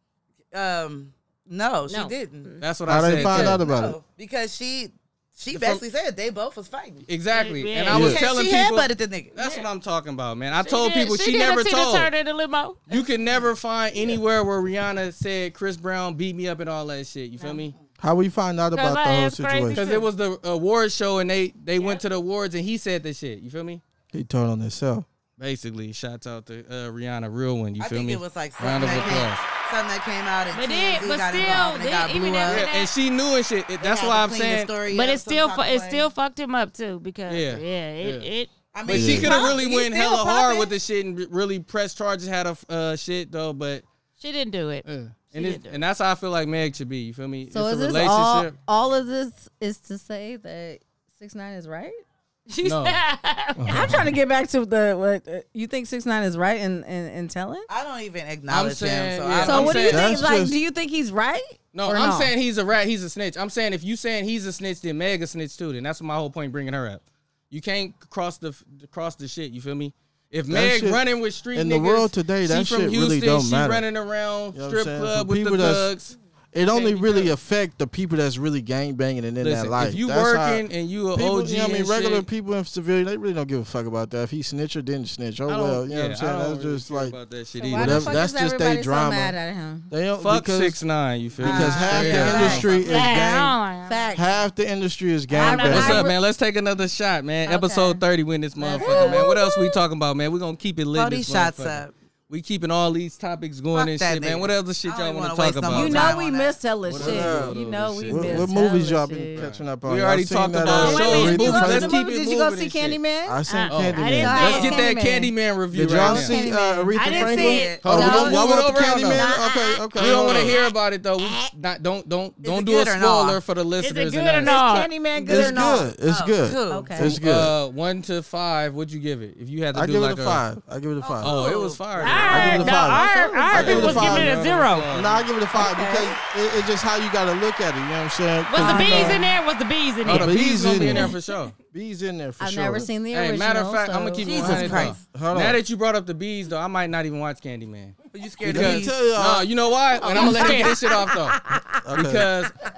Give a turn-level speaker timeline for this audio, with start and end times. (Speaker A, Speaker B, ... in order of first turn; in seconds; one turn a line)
Speaker A: 0.5-2.5
Speaker B: 1.9-2.6
Speaker C: 2.6-3.6
Speaker D: 2.9-4.0
Speaker A: 3.1-7.1
Speaker C: 5.5-5.8
Speaker C: 7.1-12.1
Speaker B: 7.3-8.2
Speaker A: 7.9-9.4
Speaker D: 7.9-8.2
Speaker B: 10.6-12.9
Speaker C: 12.9-17.8
Speaker A: 12.9-14.2
Speaker D: 18.0-19.8
Speaker B: 18.7-20.1
Speaker C: 19.7-23.8
Speaker B: 21.8-22.0
Speaker D: 24.1-25.1
Speaker C: 25.4-29.4
Speaker A: 27.8-32.7
Speaker B: 30.5-32.9
Speaker C: 32.5-34.8
Speaker A: 33.8-36.1
Speaker B: 34.8-38.6
Speaker C: 37.3-38.3
Speaker A: 38.7-40.7
Speaker C: 38.9-43.9
Speaker D: 38.9-39.3
Speaker B: 39.2-39.6
Speaker B: 44.2-45.8
Speaker C: 44.9-48.5
Speaker E: 47.5-52.0
Speaker B: 52.5-54.0
Speaker C: 52.6-53.0
Speaker D: 53.6-54.0
Speaker E: 53.7-57.7
Speaker A: 57.7-60.0
Speaker C: 58.5-60.1
Speaker E: 59.5-62.3
Speaker D: 59.6-60.6
Speaker C: 61.7-76.2
Speaker D: 70.5-73.9
Speaker D: 74.5-75.9
Speaker D: 76.5-87.2
Speaker C: 76.8-77.1
Speaker C: 79.4-82.3
Speaker C: 85.5-88.2
Speaker E: 87.6-89.9
Speaker D: 87.7-89.4
Speaker D: 89.9-90.8
Speaker C: 90.2-92.8
Speaker D: 91.4-93.5
Speaker A: 91.4-92.8
Speaker E: 92.3-93.3
Speaker B: 92.8-94.3
Speaker E: 93.9-94.4
Speaker D: 94.2-96.1
Speaker E: 95.3-96.2
Speaker B: 95.3-96.1
Speaker C: 95.6-106.2
Speaker E: 97.5-98.0
Speaker E: 98.6-99.3
Speaker B: 98.8-99.3
Speaker A: 100.9-102.0
Speaker A: 103.7-106.6
Speaker E: 105.7-109.4
Speaker C: 106.9-108.5
Speaker D: 106.9-112.0
Speaker C: 109.3-113.0
Speaker E: 110.7-113.4
Speaker B: 110.9-111.5
Speaker D: 113.3-114.8
Speaker B: 113.5-114.9
Speaker C: 113.7-116.4
Speaker E: 114.0-115.3
Speaker D: 115.7-120.6
Speaker E: 115.9-121.5
Speaker B: 116.9-117.8
Speaker A: 117.0-117.8
Speaker C: 117.8-119.3
Speaker C: 120.0-124.6
Speaker A: 122.4-123.4
Speaker B: 123.8-125.8
Speaker E: 124.5-125.8
Speaker D: 125.3-127.5
Speaker A: 126.0-127.0
Speaker E: 126.7-127.2
Speaker C: 127.0-130.4
Speaker D: 129.7-131.4
Speaker A: 131.0-132.6
Speaker C: 131.2-132.8
Speaker B: 132.0-134.9
Speaker D: 132.3-139.2
Speaker E: 132.3-133.5
Speaker C: 133.5-135.2
Speaker E: 135.6-136.2
Speaker B: 138.5-140.4
Speaker E: 138.6-139.2
Speaker C: 140.1-141.5
Speaker D: 140.1-141.1
Speaker D: 141.7-142.9
Speaker E: 142.4-144.9
Speaker C: 143.1-151.4
Speaker A: 144.2-145.0
Speaker D: 144.5-145.6
Speaker A: 148.1-149.0
Speaker D: 148.4-149.5
Speaker B: 150.1-151.0
Speaker E: 150.1-151.8
Speaker A: 150.2-150.6
Speaker D: 151.8-152.3
Speaker C: 152.0-152.6